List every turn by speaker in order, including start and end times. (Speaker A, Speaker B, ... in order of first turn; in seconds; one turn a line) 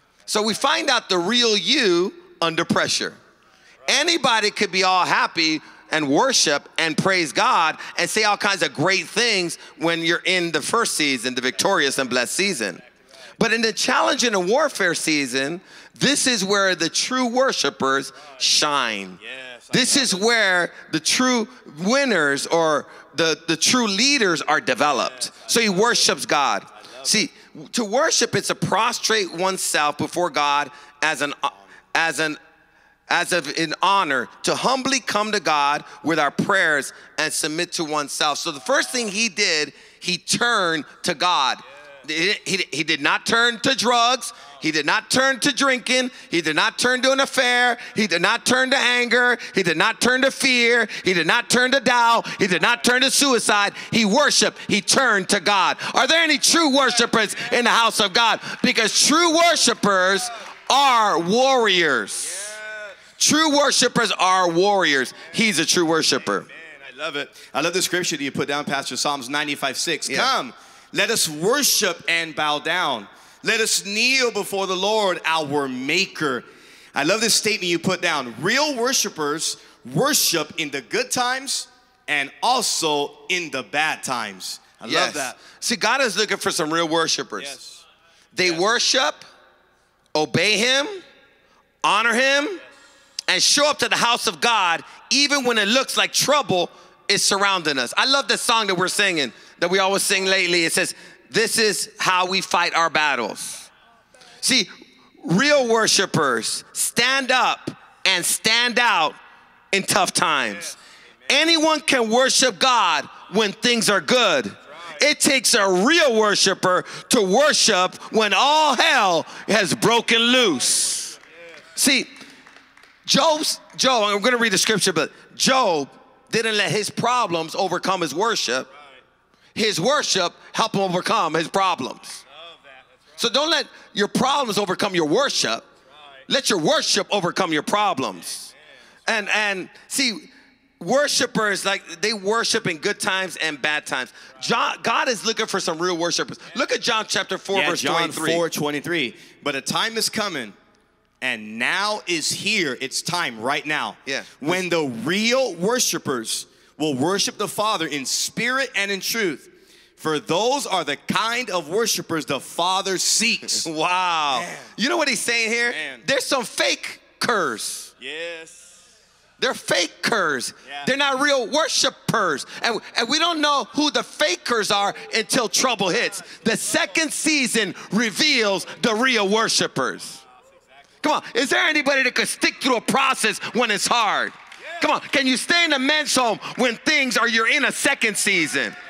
Speaker A: 0.2-3.2
Speaker A: 3.9-12.8
Speaker A: 13.4-19.2
Speaker B: 19.2-20.3
Speaker A: 19.7-32.4
Speaker B: 24.9-26.0
Speaker B: 26.8-27.2
Speaker A: 33.1-62.5
Speaker B: 62.2-63.0
Speaker A: 63.2-66.5
Speaker B: 66.5-85.3
Speaker A: 70.1-70.3
Speaker A: 84.8-87.5
Speaker B: 87.4-87.8
Speaker A: 88.3-89.2
Speaker A: 90.1-91.0
Speaker A: 91.8-92.6
Speaker A: 93.3-103.7
Speaker A: 104.4-104.7
Speaker A: 105.2-109.2
Speaker A: 109.7-110.8
Speaker A: 111.3-121.2
Speaker A: 121.7-122.1
Speaker A: 123.0-128.7
Speaker A: 129.5-132.2
Speaker B: 132.4-133.0
Speaker A: 133.2-135.6
Speaker A: 136.3-138.5
Speaker A: 139.1-140.3
Speaker A: 140.8-148.4
Speaker B: 147.5-150.5
Speaker B: 151.2-163.7
Speaker A: 154.0-154.3
Speaker A: 163.5-167.9
Speaker B: 164.3-164.7
Speaker B: 165.7-166.1
Speaker B: 168.0-168.8
Speaker A: 169.4-180.2
Speaker B: 170.6-170.9
Speaker B: 180.3-180.7
Speaker A: 181.0-188.8